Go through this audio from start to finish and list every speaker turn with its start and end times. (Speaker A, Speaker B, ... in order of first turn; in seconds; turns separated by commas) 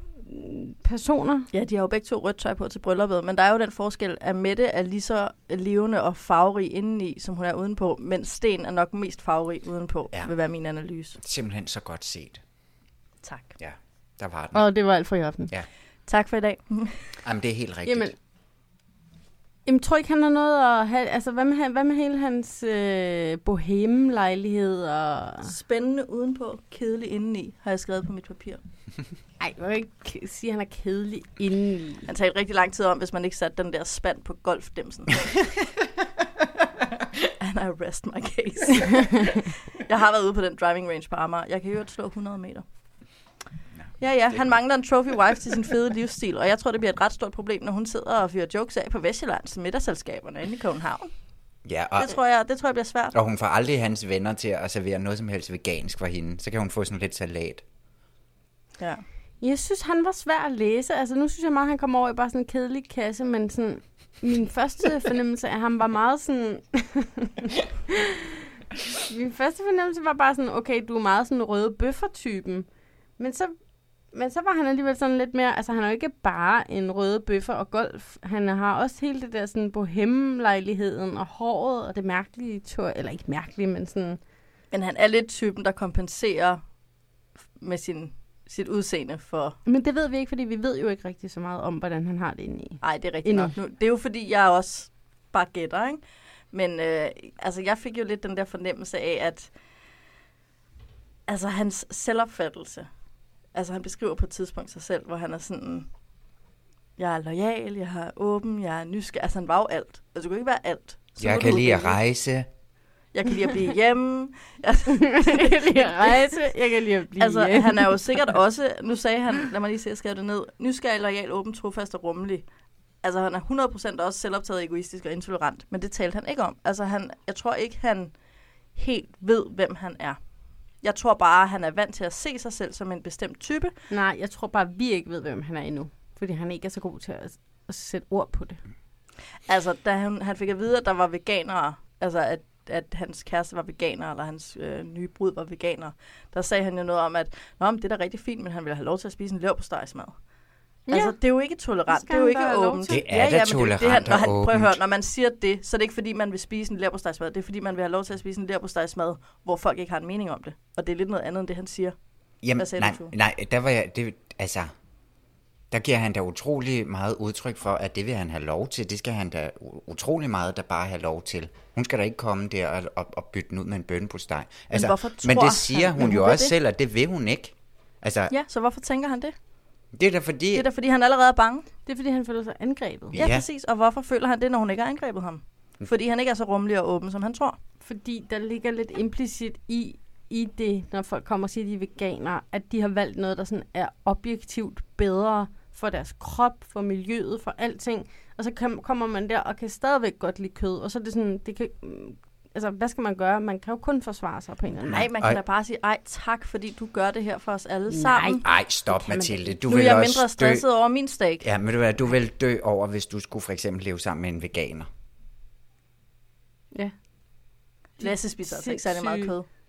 Speaker A: 0.3-1.5, Speaker B: 1.5-11.2, Speaker C: 11.2-12.4, Speaker B: 13.2-13.5, Speaker C: 13.6-14.6, Speaker A: 14.5-15.5, Speaker B: 16.1-17.0, Speaker C: 17.2-18.1, Speaker A: 17.9-18.1, Speaker A: 19.7-25.5, Speaker B: 25.4-28.6, Speaker A: 29.4-32.1, Speaker B: 32.1-35.4, Speaker B: 37.2-42.6, Speaker B: 44.0-51.1, Speaker C: 51.7-52.2, Speaker B: 52.0-53.1, Speaker C: 53.1-57.6, Speaker A: 59.4-68.2, Speaker A: 69.1-72.7, Speaker A: 73.2-73.5, Speaker A: 74.1-84.2, Speaker B: 84.7-86.6, Speaker B: 87.6-89.6, Speaker A: 89.7-93.5, Speaker B: 92.8-96.0, Speaker B: 96.5-99.5, Speaker B: 101.3-102.9, Speaker B: 103.5-105.9, Speaker B: 107.0-112.0, Speaker C: 111.2-112.5, Speaker B: 113.1-116.4, Speaker A: 114.9-118.2, Speaker B: 117.2-122.5, Speaker B: 123.0-128.1, Speaker B: 128.8-130.2, Speaker B: 130.8-133.7, Speaker A: 133.9-138.6, Speaker B: 139.5-150.1, Speaker B: 150.9-161.9, Speaker A: 150.9-151.2, Speaker A: 151.9-153.0, Speaker C: 152.9-154.8, Speaker C: 162.4-164.7, Speaker B: 162.6-163.1, Speaker C: 165.7-178.3, Speaker B: 174.7-176.5, Speaker B: 178.3-179.3, Speaker C: 179.9-180.7, Speaker B: 180.5-181.7, Speaker A: 181.9-183.2, Speaker C: 183.1-183.5, Speaker B: 183.2-187.6, Speaker A: 187.8-205.1, Speaker B: 204.9-208.4, Speaker C: 204.9-205.4, Speaker A: 207.9-209.5, Speaker C: 208.4-210.7, Speaker B: 209.7-211.5, Speaker C: 211.4-214.9, Speaker A: 218.0-219.3, Speaker B: 218.0-219.4